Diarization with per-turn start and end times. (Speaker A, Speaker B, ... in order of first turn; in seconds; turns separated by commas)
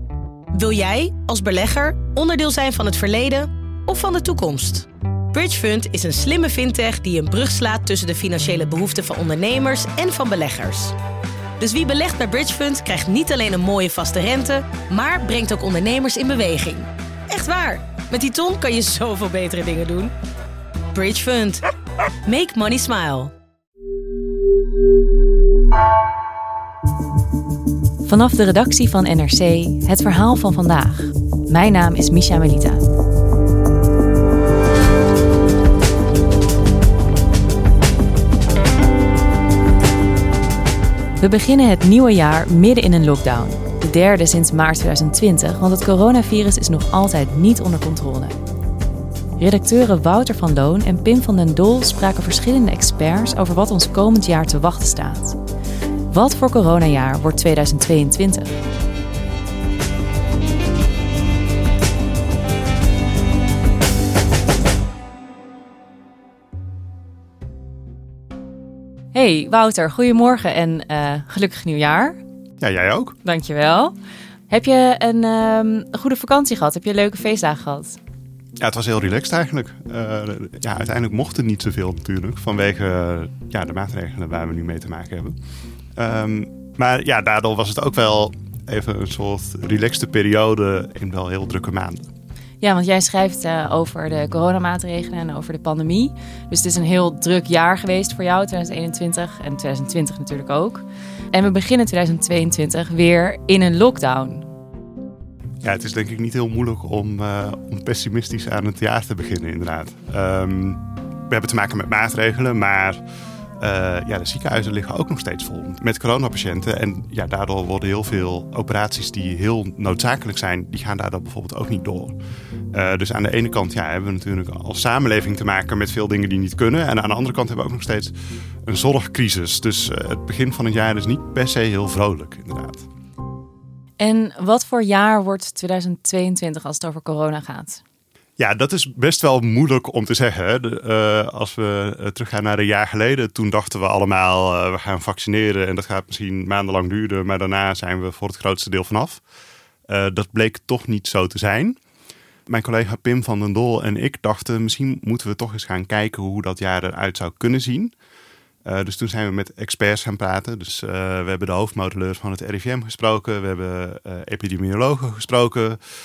Speaker A: 0.5-11.0, Speaker A: 11.6-20.1, Speaker A: 20.9-21.6, Speaker A: 22.2-23.3, Speaker B: 28.1-32.8, Speaker B: 41.2-48.4, Speaker B: 49.4-55.4, Speaker B: 56.1-58.6, Speaker B: 69.1-72.2, Speaker C: 72.6-73.2, Speaker B: 73.2-73.9, Speaker B: 74.5-78.0, Speaker C: 78.6-85.3, Speaker C: 86.0-92.1, Speaker B: 92.6-104.5, Speaker C: 105.6-113.0, Speaker C: 113.6-122.2, Speaker C: 122.7-128.1, Speaker C: 128.7-132.9, Speaker B: 134.0-137.8, Speaker C: 138.4-149.2, Speaker C: 149.9-151.8, Speaker C: 152.5-157.9, Speaker C: 158.7-165.8